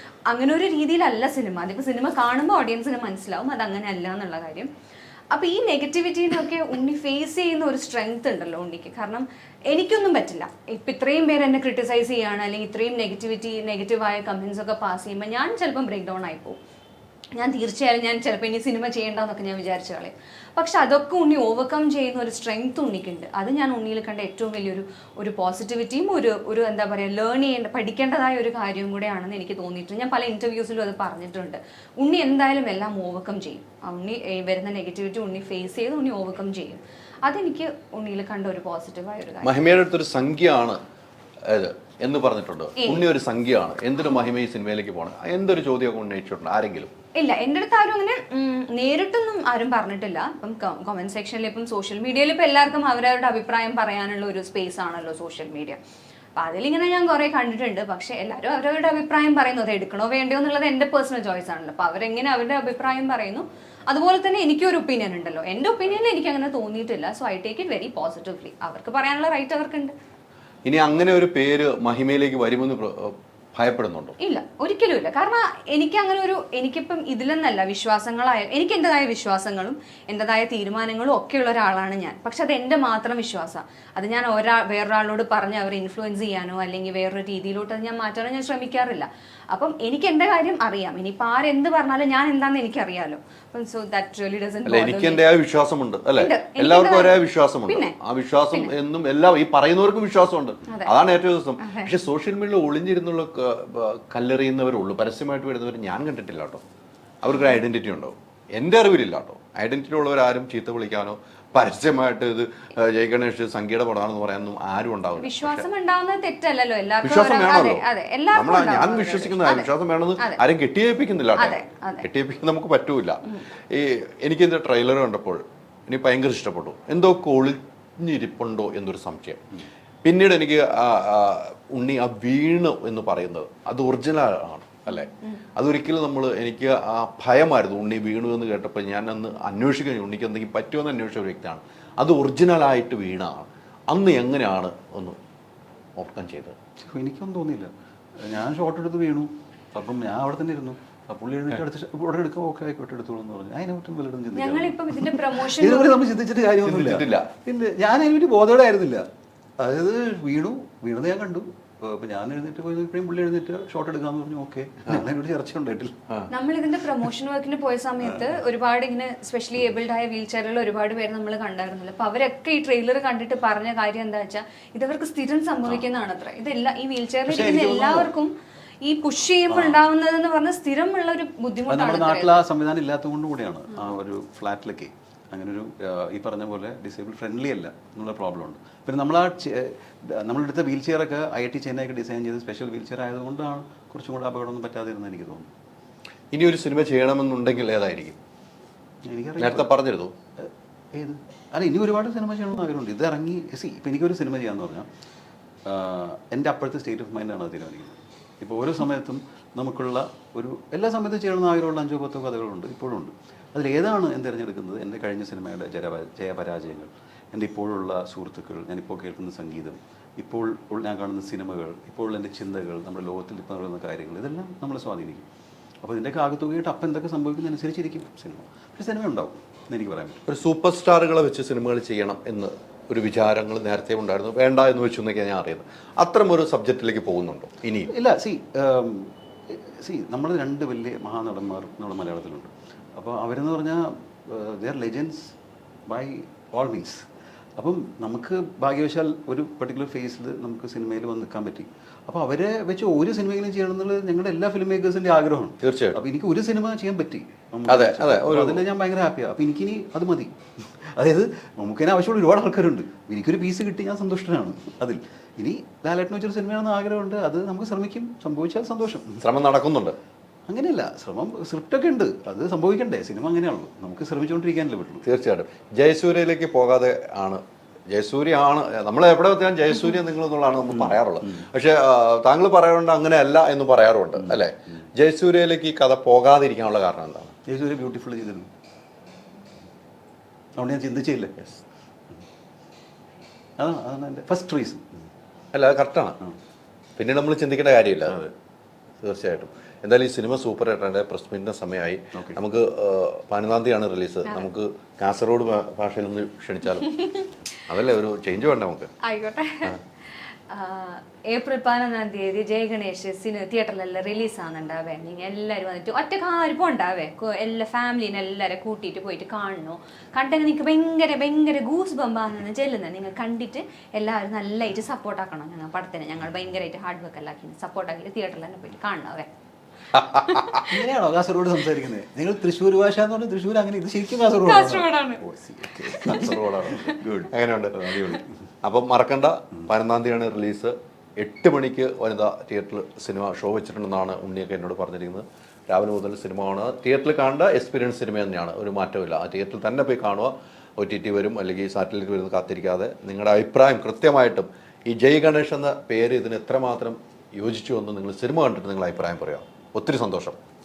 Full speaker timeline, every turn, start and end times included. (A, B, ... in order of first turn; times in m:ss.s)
0:00.3-0:04.7 A
0:05.3-0:16.6 A
0:17.4-0:39.6 A
0:39.4-0:40.8 B
0:41.4-0:46.9 B
0:47.2-0:55.8 A
0:56.4-1:09.9 A
1:10.6-1:14.2 B
1:14.2-1:35.2 A
1:34.7-1:46.6 B
1:36.2-1:38.0 A
1:40.7-1:40.9 A
1:41.6-1:41.9 A
1:47.2-1:55.7 B
1:55.2-2:00.4 A
1:57.0-2:09.4 B
2:01.4-2:02.1 A
2:10.0-2:25.2 B
2:15.1-2:15.4 A
2:26.0-2:26.6 B
2:26.8-2:39.1 C
2:34.4-2:36.0 A
2:36.6-2:37.3 B
2:39.6-2:46.0 C
2:46.3-3:02.4 A
2:57.3-2:58.1 C
2:59.5-2:59.8 C
3:01.7-3:15.5 C
3:16.3-3:18.2 B
3:19.0-3:19.7 C
3:19.4-3:20.1 B
3:20.4-3:24.9 C
3:25.7-3:45.2 C
3:45.8-3:50.2 C
3:50.3-3:57.9 B
3:57.9-4:05.4 C
4:05.9-4:29.3 C
4:15.6-4:16.0 B
4:17.7-4:18.6 B
4:29.2-4:30.0 B
4:30.5-4:35.0 C
4:35.0-4:47.4 B
4:40.7-4:41.4 C
4:44.2-4:44.4 C
4:47.5-4:48.5 C
4:50.6-4:51.4 C
4:53.6-4:55.0 C
4:55.5-4:56.2 B
4:57.0-4:58.2 B
4:58.1-4:58.3 C
4:59.0-5:07.0 B
5:02.1-5:02.4 C
5:07.7-5:08.9 B
5:09.0-5:09.8 A
5:10.5-5:29.3 A
5:29.9-5:30.7 B
5:30.6-5:38.4 C
5:34.4-5:35.2 A
5:36.0-5:36.3 A
5:36.0-5:37.9 B
5:38.6-6:00.4 B